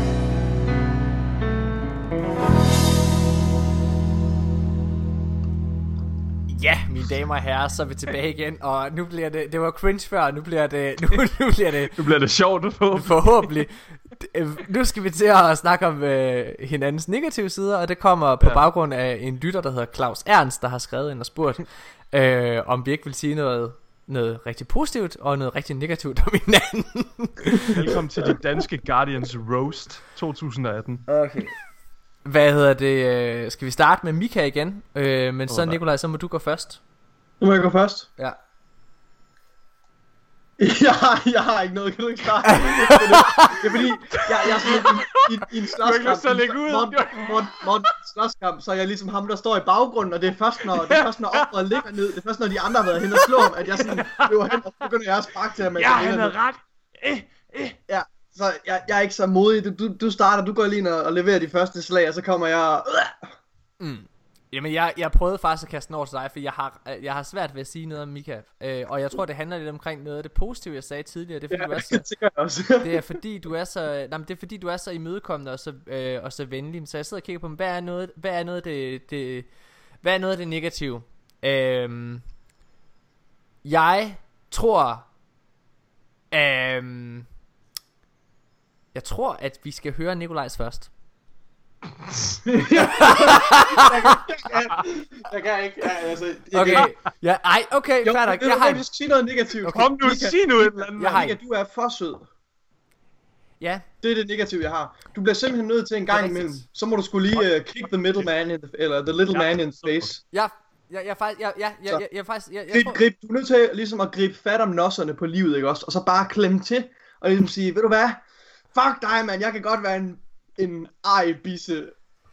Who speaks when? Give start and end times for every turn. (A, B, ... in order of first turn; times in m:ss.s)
0:06.5-0:12.0 A
0:11.9-0:13.5 B
0:13.0-0:28.0 A
0:27.6-0:31.1 B
0:31.1-0:31.6 A
0:32.2-0:36.8 A
0:35.5-0:35.8 B
0:37.4-0:38.1 C
0:40.6-0:56.4 C
0:42.5-0:43.6 A
0:44.2-0:45.0 B
0:45.8-0:47.7 B
0:50.7-0:51.9 B
0:52.8-0:54.6 B
0:55.8-0:57.8 B
0:57.9-1:03.3 C
1:03.8-1:12.1 A
1:11.5-1:13.1 C
1:12.8-1:19.5 A
1:20.0-1:22.2 A
1:23.6-1:25.1 A
1:26.3-1:27.3 A
1:28.9-1:30.9 A
1:32.1-1:32.4 B
1:32.5-1:36.9 C
1:32.9-1:34.2 A
1:36.5-1:38.8 A
1:38.0-1:42.3 C
1:39.6-1:41.3 B
1:41.0-1:41.4 A
1:44.0-1:50.2 C
1:46.1-1:46.6 A
1:49.3-1:50.1 B
1:50.3-1:53.0 A
1:52.7-1:58.2 C
1:58.7-2:01.9 C